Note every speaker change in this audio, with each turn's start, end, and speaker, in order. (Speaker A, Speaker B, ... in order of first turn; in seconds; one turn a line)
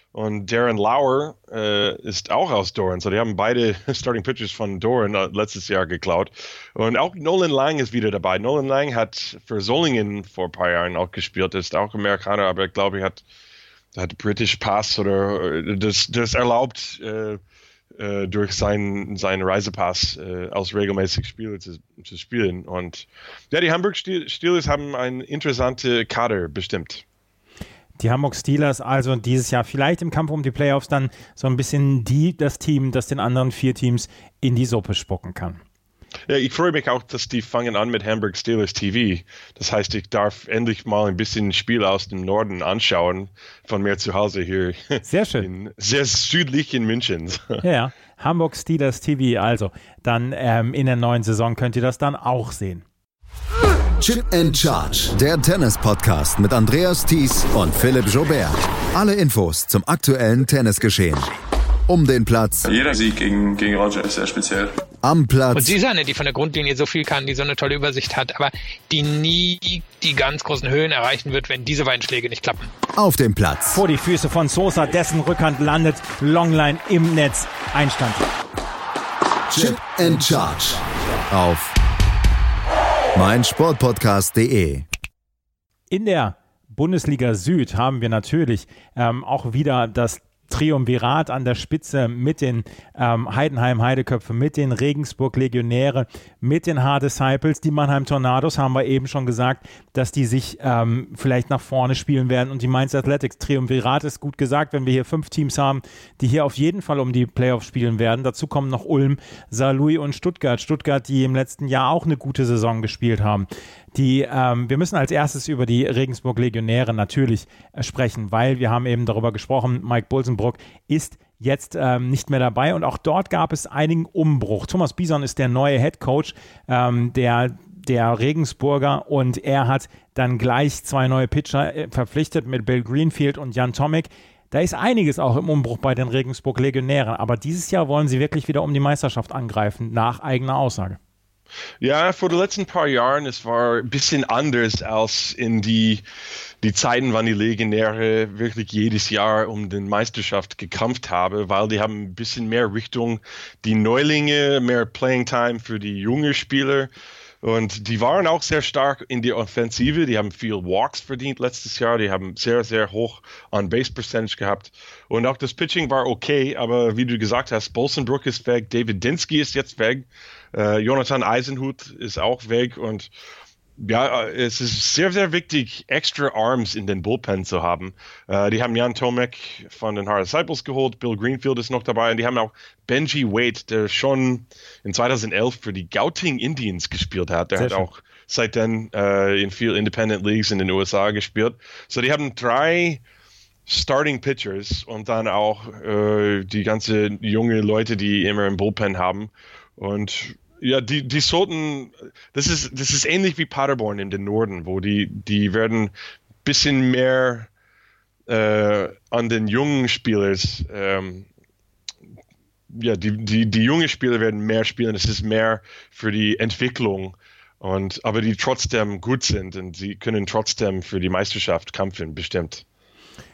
Speaker A: 0.1-13.2
Speaker A: 13.9-17.4
Speaker A: 18.0-27.0
Speaker B: 28.0-35.6
Speaker A: 36.3-47.6
Speaker B: 45.0-45.5
Speaker B: 47.6-52.8
Speaker C: 54.0-61.3
Speaker C: 61.9-62.7
Speaker D: 62.7-64.7
Speaker C: 65.0-65.8
Speaker E: 65.5-72.7
Speaker C: 72.9-73.8
Speaker B: 73.7-78.2
Speaker C: 79.5-81.7
Speaker C: 83.1-84.8
Speaker B: 85.9-141.0
Speaker A: 141.8-146.0
Speaker A: 146.6-156.9
Speaker A: 157.4-173.1
Speaker A: 173.8-193.0
Speaker B: 187.6-187.9
Speaker A: 193.7-205.9
Speaker A: 206.4-207.5
Speaker A: 208.3-211.2
Speaker A: 212.7-222.6